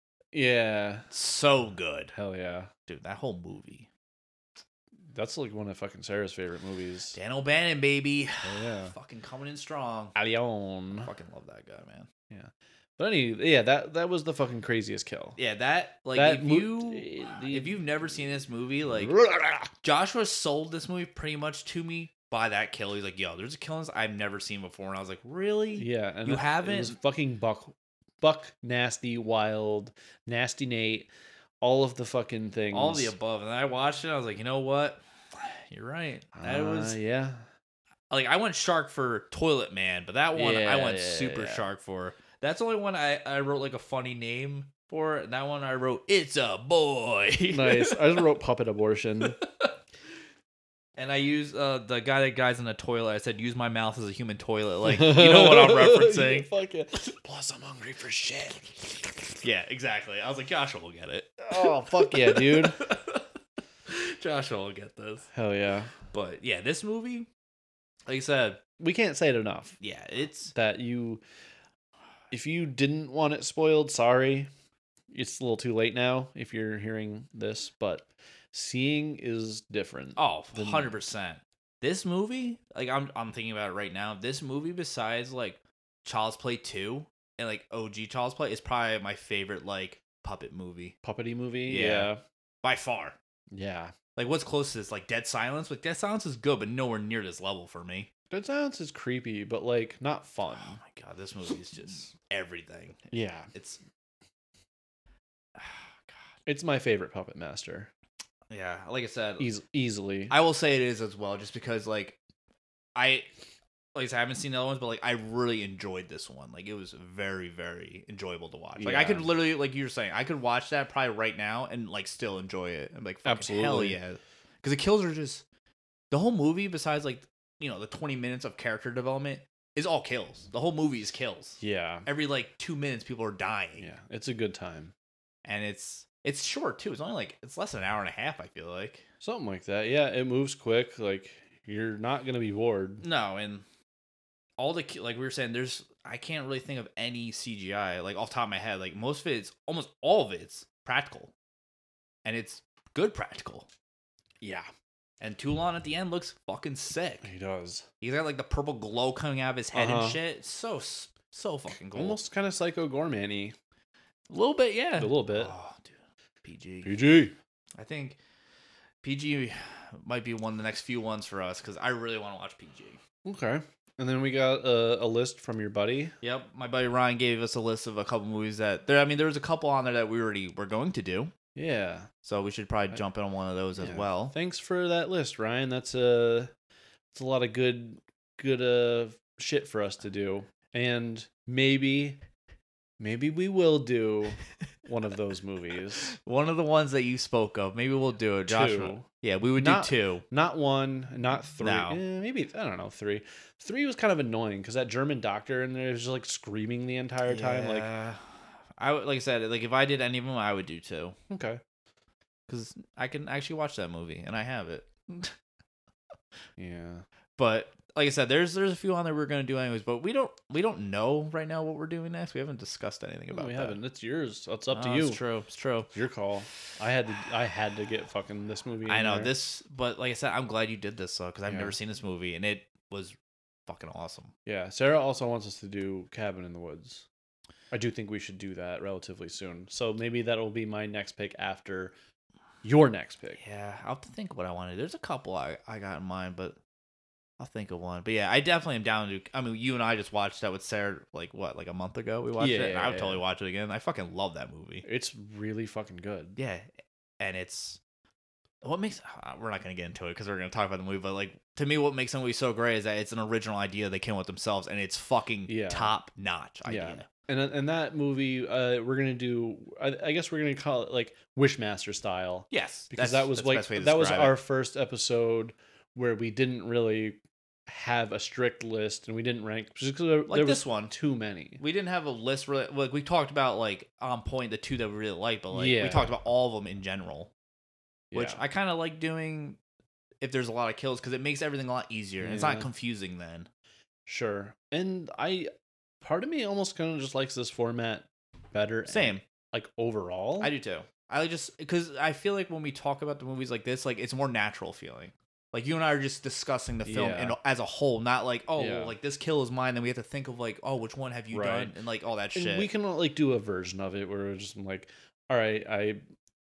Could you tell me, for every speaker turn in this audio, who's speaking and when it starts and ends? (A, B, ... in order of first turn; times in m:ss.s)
0:00.3-0:01.1 A
0:01.1-0:02.1 B
0:02.1-0:02.7 A
0:02.9-0:03.9 B
0:05.1-0:07.2 A
0:07.1-0:10.1 B
0:08.4-0:08.9 A
0:10.1-0:11.1 A
0:11.0-0:12.1 B
0:12.3-0:15.4 A
0:15.4-0:19.2 B
0:16.1-0:17.8 A
0:18.9-0:19.7 A
0:19.8-0:27.0 B
0:25.8-0:31.1 A
0:31.6-0:33.1 A
0:32.7-0:37.0 B
0:36.4-0:37.4 A
0:38.1-0:48.2 B
0:40.3-0:41.6 A
0:47.5-0:49.4 A
0:49.2-0:49.7 B
0:51.0-0:56.5 B
0:54.8-0:59.4 A
0:59.4-1:03.2 B
1:01.5-1:02.8 A
1:03.8-1:05.3 B
1:05.3-1:05.9 A
1:06.1-1:07.3 B
1:08.1-1:08.6 B
1:08.8-1:09.8 A
1:09.8-1:10.5 B
1:10.5-1:11.2 A
1:12.3-1:14.5 A
1:15.1-1:20.9 A
1:20.2-1:30.9 B
1:31.0-1:32.2 A
1:31.6-1:32.1 B
1:32.6-1:33.2 B
1:33.5-1:33.9 A
1:34.2-1:38.1 B
1:38.3-1:40.8 A
1:40.6-1:43.8 B
1:43.1-1:43.5 A
1:45.6-1:46.2 B
1:46.5-1:47.9 A
1:48.5-1:49.5 B
1:49.4-1:50.3 A
1:50.3-1:52.2 B
1:53.0-1:53.3 B
1:53.9-2:05.4 B
1:58.8-1:59.3 A
2:03.2-2:04.0 A
2:06.1-2:13.8 B
2:11.6-2:12.0 A
2:13.8-2:14.9 A
2:15.4-2:19.0 B
2:19.2-2:23.0 A
2:23.0-2:23.6 B
2:24.6-2:31.3 B
2:32.2-2:33.7 B
2:34.4-2:34.7 A
2:35.2-2:37.2 B
2:37.2-2:37.8 A
2:38.0-2:42.2 B
2:39.7-2:40.2 A
2:41.8-2:43.6 A
2:44.3-2:47.0 B
2:45.0-2:45.5 A
2:46.8-2:47.3 A
2:47.8-2:48.2 B
2:49.0-2:53.0 B
2:53.2-2:56.1 A
2:56.2-3:01.3 B
3:01.6-3:02.1 A
3:02.2-3:04.3 B
3:03.8-3:06.5 A
3:07.1-3:12.2 A
3:13.0-3:16.1 A
3:16.1-3:20.2 B
3:18.5-3:27.9 A
3:21.6-3:22.0 B
3:27.2-3:28.2 B
3:28.8-3:31.2 B
3:31.3-3:31.6 A
3:32.5-3:35.4 B
3:36.6-3:37.0 A
3:37.4-3:43.8 B
3:43.3-3:45.2 A
3:44.7-3:45.9 B
3:45.9-3:49.3 A
3:48.9-3:54.3 B
3:51.5-3:51.8 A
3:54.4-3:57.0 A
3:57.7-4:01.9 A
4:02.6-4:03.4 A
4:03.4-4:06.6 B
4:07.4-4:14.8 B
4:12.4-4:13.2 A
4:14.8-4:16.4 A
4:16.4-4:16.7 B
4:17.2-4:17.8 B
4:18.6-4:27.1 B
4:25.5-4:26.0 A
4:26.6-4:41.6 A
4:32.5-4:34.4 B
4:40.3-4:40.9 B
4:41.6-4:47.3 B
4:45.5-4:46.1 A
4:48.1-4:48.4 A
4:48.1-4:49.6 B
4:50.2-4:53.5 B
4:52.2-4:52.7 A
4:54.1-4:55.5 A
4:56.0-5:00.5 A
4:58.9-4:59.2 B
5:00.4-5:12.7 B
5:06.8-5:07.4 A
5:08.6-5:08.9 A
5:11.3-5:11.7 A
5:12.3-5:16.0 A